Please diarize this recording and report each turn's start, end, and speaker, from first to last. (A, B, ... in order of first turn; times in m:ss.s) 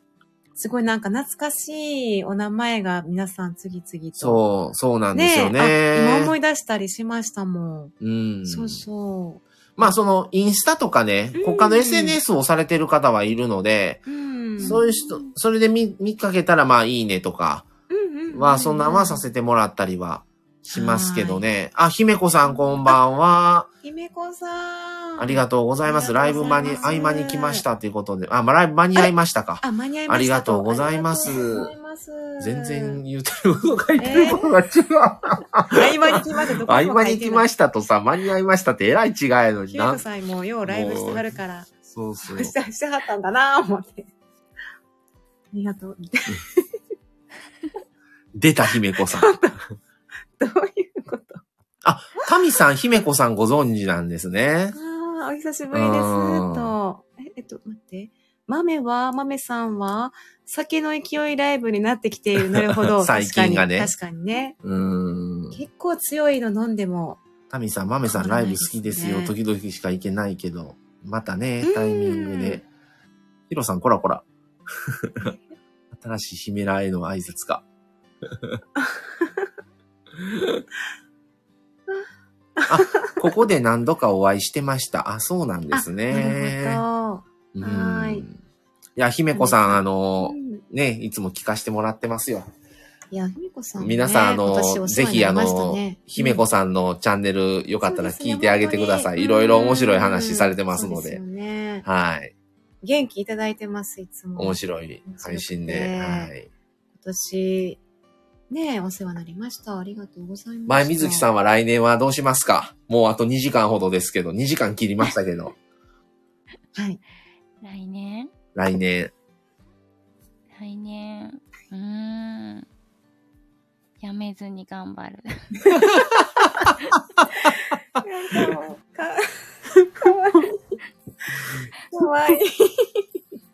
0:00.6-0:04.4 A
0:04.2-0:06.3 B
0:05.1-0:07.9 A
0:08.0-0:08.8 B
0:08.4-0:09.9 A
0:09.8-0:14.0 B
0:11.3-0:12.2 A
0:14.1-0:14.8 A
0:14.6-0:15.3 C
0:14.6-0:17.7 B
0:17.9-0:19.3 A
0:18.3-0:23.7 B
0:20.7-0:21.4 A
0:23.8-0:27.6 A
0:25.2-0:31.7 B
0:26.4-0:27.1 C
0:29.6-0:33.0 A
0:32.4-0:40.0 B
0:34.0-0:34.5 A
0:35.7-0:37.5 A
0:39.7-0:41.7 A
0:40.7-0:41.3 B
0:41.8-0:42.5 B
0:42.2-0:44.1 A
0:45.5-0:46.7 A
0:48.3-0:49.3 B
0:49.0-0:49.6 A
0:50.4-0:51.4 A
0:51.8-0:54.7 B
0:54.7-1:04.6 A
0:55.7-0:56.7 B
1:02.8-1:03.9 B
1:04.6-1:05.6 B
1:05.5-1:07.2 A
1:07.5-1:12.6 B
1:08.0-1:09.3 A
1:11.6-1:12.6 A
1:13.5-1:15.3 B
1:15.9-1:17.6 B
1:18.2-1:18.6 B
1:18.8-1:19.4 A
1:20.2-1:20.6 B
1:22.6-1:23.2 A
1:22.7-1:26.8 B
1:25.7-1:28.2 A
1:27.5-1:28.4 B
1:29.0-1:32.5 B
1:29.3-1:30.6 A
1:33.1-1:36.4 A
1:33.8-1:41.2 B
1:37.8-1:41.8 A
1:41.8-1:42.3 B
1:42.8-1:46.3 A
1:44.4-1:46.5 B
1:46.9-1:47.8 A
1:48.5-1:51.3 A
1:50.7-1:55.5 B
1:57.6-1:58.3 C
1:58.5-1:59.1 B
2:00.5-2:02.6 C
2:04.0-2:05.8 C
2:08.0-2:09.3 A
2:09.9-2:10.8 A
2:11.9-2:13.0 A